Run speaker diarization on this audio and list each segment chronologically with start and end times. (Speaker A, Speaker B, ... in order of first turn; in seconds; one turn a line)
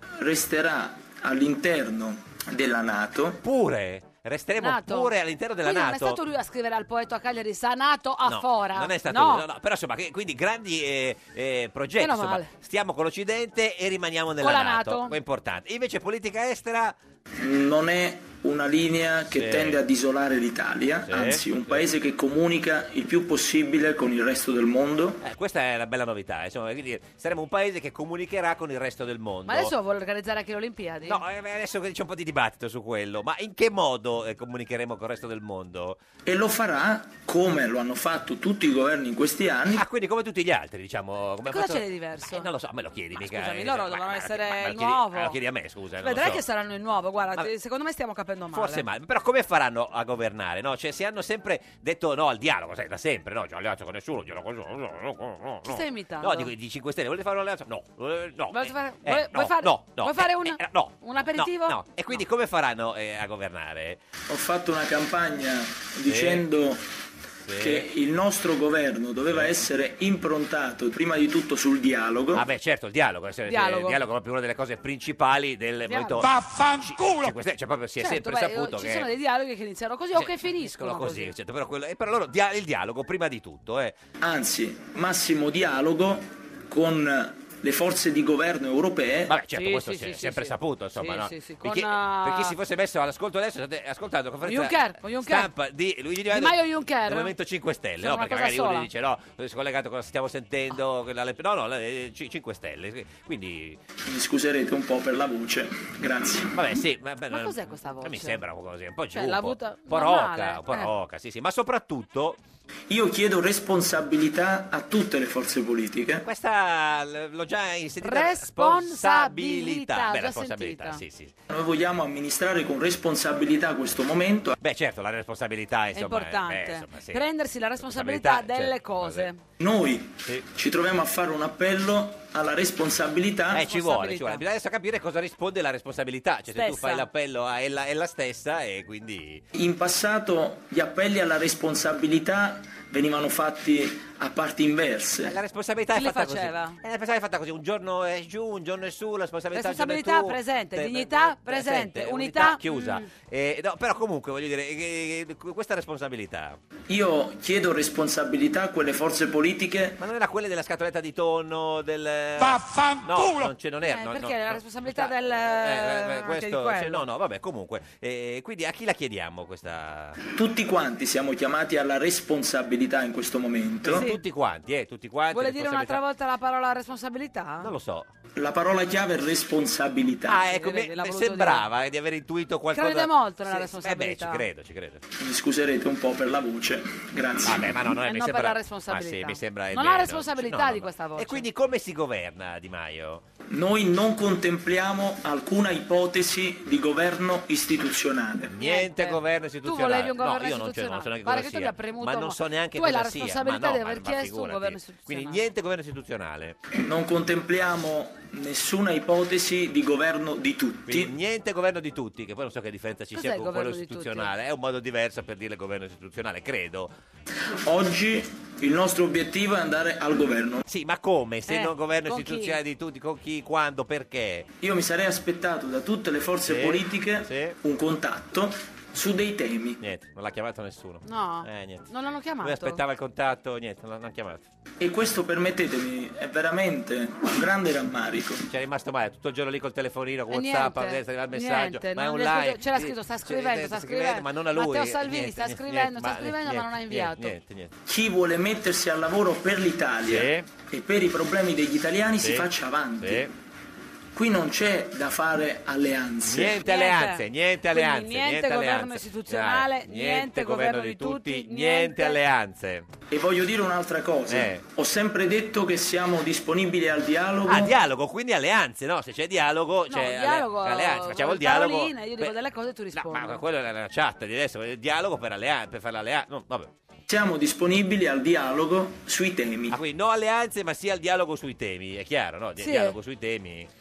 Speaker A: 0.2-3.4
Speaker B: 3.4-6.2
Speaker C: 4.6-9.4
Speaker B: 8.2-16.9
Speaker C: 12.0-12.5
Speaker C: 14.4-15.2
Speaker A: 17.4-25.2
Speaker B: 19.3-19.8
Speaker B: 21.1-21.8
Speaker B: 25.2-29.7
Speaker C: 29.5-31.2
Speaker B: 31.1-36.0
Speaker A: 36.3-39.8
Speaker B: 39.7-46.4
Speaker C: 41.5-42.5
Speaker C: 43.1-45.4
Speaker C: 46.0-48.9
Speaker B: 48.5-64.0
Speaker C: 55.7-56.5
Speaker C: 58.5-62.2
Speaker A: 64.3-66.8
Speaker B: 66.1-66.5
Speaker B: 67.5-67.9
Speaker A: 67.6-72.4
Speaker B: 72.3-79.1
Speaker C: 73.5-74.0
Speaker C: 75.9-76.4
Speaker C: 78.0-81.3
Speaker B: 80.1-84.0
Speaker A: 84.2-89.3
Speaker B: 89.3-103.8
Speaker C: 89.5-92.5
Speaker C: 94.5-95.5
Speaker C: 96.3-97.3
Speaker C: 98.0-98.9
Speaker A: 104.0-106.5
Speaker B: 106.5-112.4
Speaker C: 107.3-108.4
Speaker C: 109.1-110.9
Speaker A: 112.9-116.3
Speaker B: 116.2-121.3
Speaker C: 118.0-121.0
Speaker A: 121.5-124.6
Speaker B: 124.6-127.3
Speaker C: 125.9-129.4
Speaker B: 127.8-129.3
Speaker A: 129.6-133.6
Speaker B: 133.5-139.4
Speaker C: 133.6-134.4
Speaker C: 136.5-137.1
Speaker A: 139.6-145.3
Speaker B: 145.2-156.6
Speaker C: 145.9-146.8
Speaker C: 149.5-153.0
Speaker A: 156.9-160.0
Speaker B: 160.0-170.2
Speaker C: 163.8-167.0
Speaker A: 170.3-174.1
Speaker B: 173.8-176.0
Speaker C: 173.9-174.2
Speaker C: 175.3-177.7
Speaker B: 177.6-178.1
Speaker A: 178.4-180.4
Speaker B: 180.3-185.0
Speaker C: 180.4-181.7
Speaker C: 182.7-184.4
Speaker A: 185.2-187.7
Speaker B: 187.4-193.2
Speaker C: 188.0-191.5
Speaker A: 193.5-198.5
Speaker B: 198.5-206.6
Speaker C: 198.6-205.4
Speaker A: 206.8-211.1
Speaker B: 210.9-216.9
Speaker C: 213.1-214.3
Speaker A: 217.5-220.6
Speaker B: 220.7-224.5
Speaker C: 221.5-222.6
Speaker A: 224.6-229.8
Speaker B: 226.5-227.6
Speaker B: 229.8-231.9
Speaker C: 231.1-232.8
Speaker B: 232.4-234.4
Speaker A: 234.8-238.4
Speaker B: 238.5-247.7
Speaker C: 240.3-247.3
Speaker A: 247.9-253.3
Speaker B: 250.1-250.5
Speaker B: 252.2-252.5
Speaker B: 253.0-253.3
Speaker A: 254.1-256.6
Speaker B: 256.2-262.9
Speaker C: 256.6-262.2
Speaker A: 263.1-267.7
Speaker B: 264.3-264.6
Speaker B: 267.5-272.4
Speaker C: 269.9-273.4
Speaker B: 272.9-276.7
Speaker A: 277.1-279.8
Speaker B: 279.7-283.7
Speaker C: 282.6-282.9